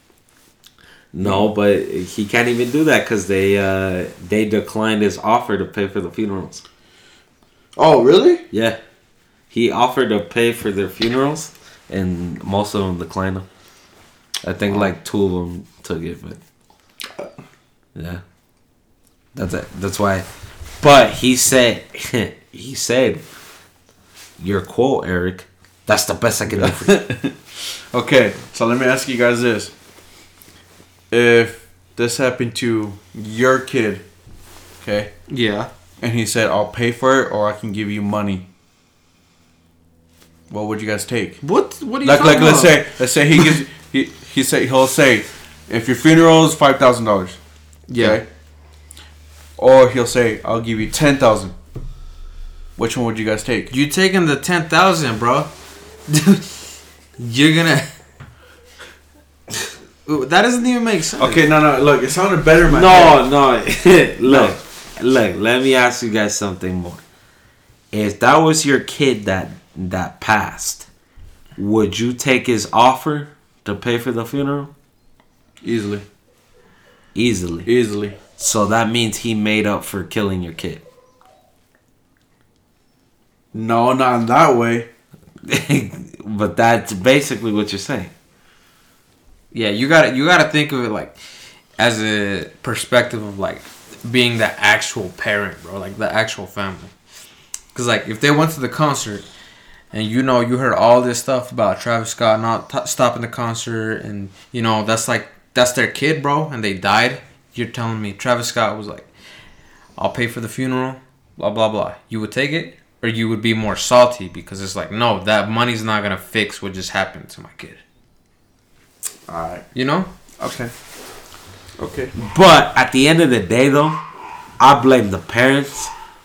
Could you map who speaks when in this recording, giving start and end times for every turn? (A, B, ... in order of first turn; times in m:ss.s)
0:01.1-0:06.6 A
0:07.8-0:08.4 B
0:08.5-0:08.8 A
0:09.5-0:13.5 A
0:14.4-0:16.4 A
0:18.0-0:18.2 A
0:19.4-0:20.3 A
0:20.8-0:23.2 A
0:24.4-0:27.0 A
0:26.5-0:27.4 B
0:27.9-0:29.7 B
0:31.1-0:34.0 B
0:34.8-0:35.1 B
0:35.3-0:35.7 C
0:36.0-0:38.5 B
0:40.5-0:41.4 B
0:41.4-0:42.8 C
0:42.0-0:47.4 B
0:47.9-0:48.2 C
0:48.0-0:48.3 B
0:49.6-0:51.6 B
0:52.8-0:53.7 B
0:53.7-0:55.5 C
0:56.1-0:56.6 C
0:57.2-0:57.9 C
1:00.1-1:01.4 C
1:01.2-1:03.2 B
1:02.7-1:07.0 A
1:04.3-1:04.6 B
1:07.9-1:10.9 A
1:11.6-1:14.7 A
1:15.6-1:16.0 B
1:17.2-1:17.7 A
1:17.7-1:18.2 B
1:18.4-1:20.8 A
1:23.5-1:24.9 B
1:25.4-1:28.1 A
1:29.5-1:31.2 C
1:31.8-1:36.9 C
1:37.7-1:39.2 C
1:39.9-1:49.1 C
1:50.0-1:57.8 C
1:59.3-1:59.7 B
1:59.7-2:00.1 C
2:00.4-2:00.7 B
2:01.8-2:02.1 B
2:02.2-2:04.0 A
2:04.6-2:05.9 A